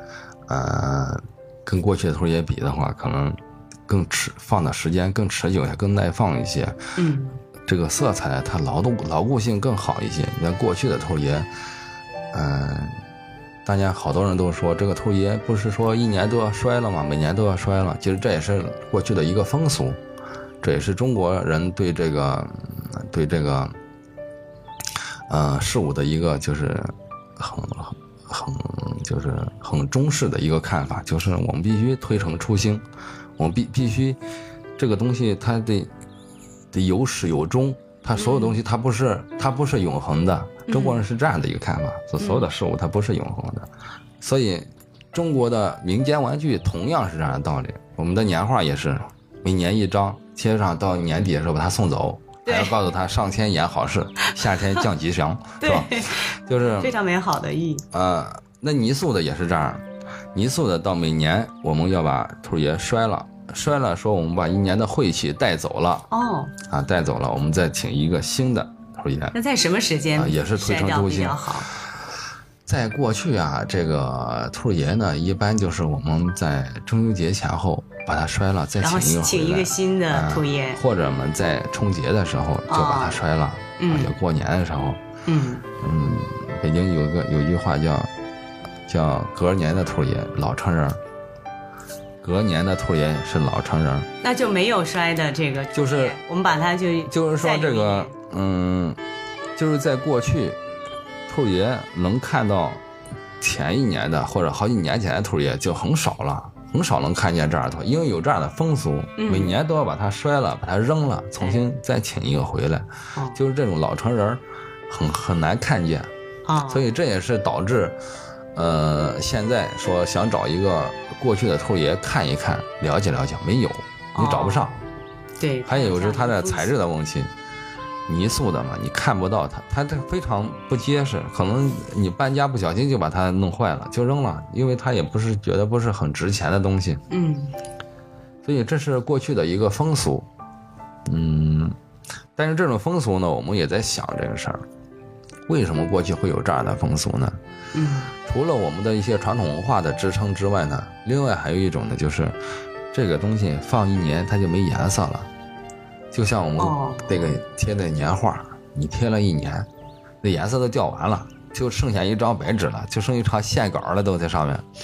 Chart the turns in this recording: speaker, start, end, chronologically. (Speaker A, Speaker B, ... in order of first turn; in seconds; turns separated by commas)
Speaker A: 0.5-6.8, Speaker B: 7.0-7.4, Speaker A: 7.7-11.5, Speaker A: 12.3-13.0, Speaker A: 13.6-20.0, Speaker A: 20.6-23.8, Speaker A: 25.3-32.8, Speaker A: 33.4-34.2, Speaker A: 34.8-35.9, Speaker A: 36.7-43.7, Speaker B: 38.1-38.6, Speaker B: 40.7-41.0, Speaker B: 42.2-42.5, Speaker A: 44.2-56.9, Speaker B: 52.5-52.7, Speaker B: 55.6-57.8, Speaker A: 57.9-66.1, Speaker B: 66.1-66.5, Speaker A: 66.7-69.3, Speaker B: 69.3-71.7, Speaker A: 70.2-71.8, Speaker A: 72.7-85.0, Speaker B: 78.8-80.8, Speaker B: 82.7-83.2, Speaker B: 83.8-84.1, Speaker B: 85.2-85.7, Speaker A: 85.8-88.1, Speaker A: 88.9-91.0, Speaker A: 92.2-94.1, Speaker B: 94.2-98.1, Speaker A: 95.7-96.2, Speaker A: 97.1-99.0, Speaker A: 99.5-100.6, Speaker A: 101.3-102.8, Speaker A: 103.4-116.1, Speaker B: 109.2-109.5, Speaker B: 116.4-116.8, Speaker A: 116.7-118.0, Speaker A: 118.5-124.8, Speaker B: 124.1-124.8, Speaker B: 125.4-126.7, Speaker A: 125.7-127.3, Speaker A: 128.1-137.0, Speaker B: 137.1-137.5, Speaker A: 138.4-140.3, Speaker A: 141.1-141.8, Speaker A: 142.3-144.6, Speaker A: 145.5-147.4, Speaker B: 147.7-148.1, Speaker A: 148.2-152.4, Speaker A: 152.9-155.3, Speaker A: 156.1-159.7, Speaker B: 156.6-157.3, Speaker A: 160.2-164.7